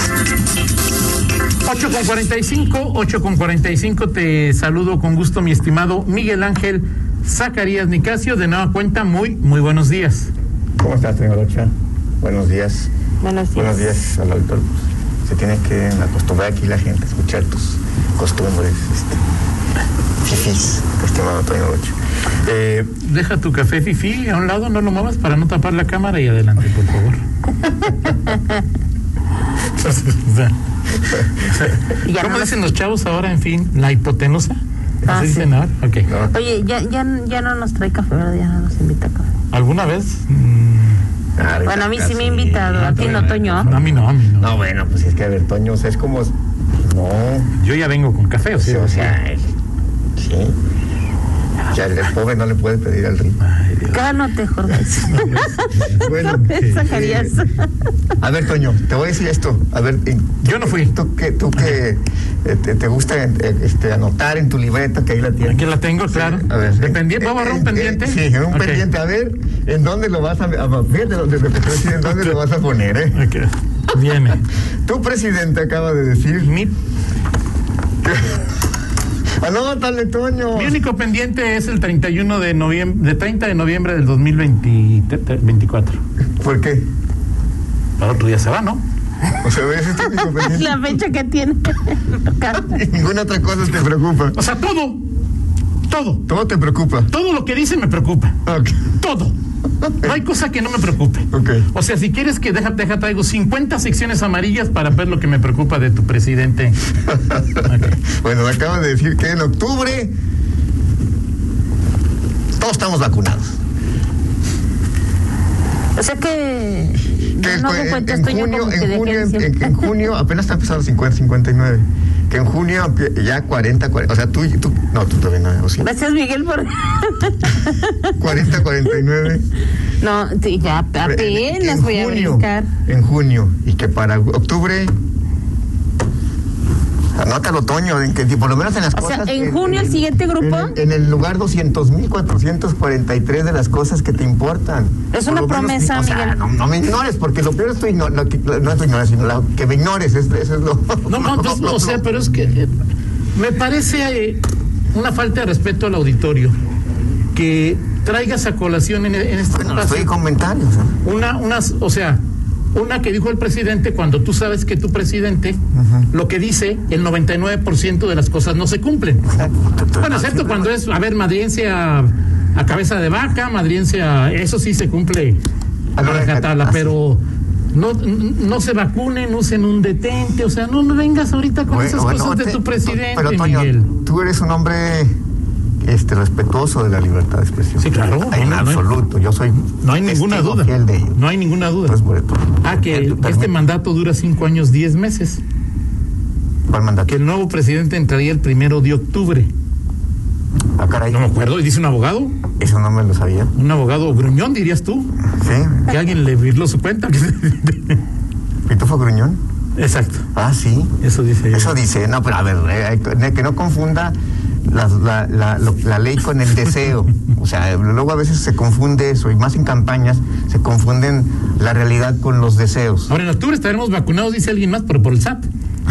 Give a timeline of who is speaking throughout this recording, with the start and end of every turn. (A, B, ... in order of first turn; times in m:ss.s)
0:01.6-0:10.3 A
0:10.8-0:11.7 B
0:12.2-0:12.9 B
0:13.2-0:13.9 C
0:13.5-0:19.2 B
0:20.2-0:22.9 B
0:23.0-0:27.2 A
0:28.3-0:28.6 C
0:29.6-0:30.5 A
0:31.1-0:36.1 A
0:32.0-0:32.6 C
0:35.0-0:35.5 C
0:36.1-0:36.5 B
0:36.3-0:39.2 C
0:39.5-0:41.0 A
0:41.4-0:47.5 B
0:41.6-0:43.7 C
0:42.7-0:44.6 A
0:47.6-0:49.2 A
0:48.6-0:49.5 B
0:50.2-0:50.5 B
0:51.7-0:53.4 B
0:53.4-0:54.0 A
0:53.9-0:57.6 C
0:55.1-0:56.0 A
0:55.9-0:57.4 B
0:58.2-1:13.2 B
1:00.4-1:00.9 A
1:01.6-1:01.8 A
1:05.4-1:08.8 A
1:12.0-1:12.4 A
1:13.1-1:14.4 A
1:14.8-1:16.6 B
1:16.4-1:16.7 A
1:18.0-1:18.4 B
1:19.4-1:20.8 B
1:20.5-1:26.0 A
1:26.4-1:26.8 B
1:28.0-1:28.8 A
1:29.4-1:31.0 B
1:30.2-1:32.7 C
1:32.5-1:34.4 B
1:34.3-1:35.0 A
1:35.9-1:36.2 A
1:36.3-1:37.1 B
1:37.1-1:38.4 A
1:38.4-1:38.9 B
1:38.9-1:39.3 A
1:39.8-1:40.2 B
1:40.0-1:46.8 A
1:41.3-1:41.7 B
1:47.1-1:50.1 B
1:47.6-1:48.0 A
1:52.6-1:53.6 B
1:56.0-1:59.9 C
1:57.4-2:05.9 B
2:05.8-2:08.1 C
2:08.2-2:09.5 B
2:10.0-2:12.7 C
2:11.0-2:14.9 B
2:17.2-2:32.0 B
2:18.9-2:20.8 C
2:25.1-2:26.4 C
2:31.1-2:32.7 A
2:33.3-2:36.5 A
2:37.3-2:40.1 A
2:39.5-2:40.9 B
2:41.0-2:42.2 A
2:42.7-2:45.6 A
2:45.7-2:46.1 B
2:46.1-2:49.4 A
2:49.3-2:50.7 B
2:50.0-2:55.4 A
2:56.0-2:56.9 B
2:56.0-2:57.2 A
2:57.7-3:03.9 A
3:01.7-3:05.1 B
3:05.8-3:11.2 B
3:07.8-3:08.8 A
3:09.8-3:12.0 A
3:11.8-3:13.6 B
3:12.6-3:15.4 A
3:16.7-3:17.2 B
3:17.1-3:19.5 A
3:20.8-3:21.2 B
3:21.1-3:22.3 A
3:22.6-3:23.5 B
3:23.5-3:25.1 A
3:25.4-3:25.9 B
3:25.9-3:28.0 A
3:28.7-3:29.4 B
3:29.8-3:30.2 A
3:30.3-3:30.9 B
3:31.0-3:31.8 A
3:31.5-3:34.1 B
3:34.6-3:43.1 B
3:43.1-3:45.5 A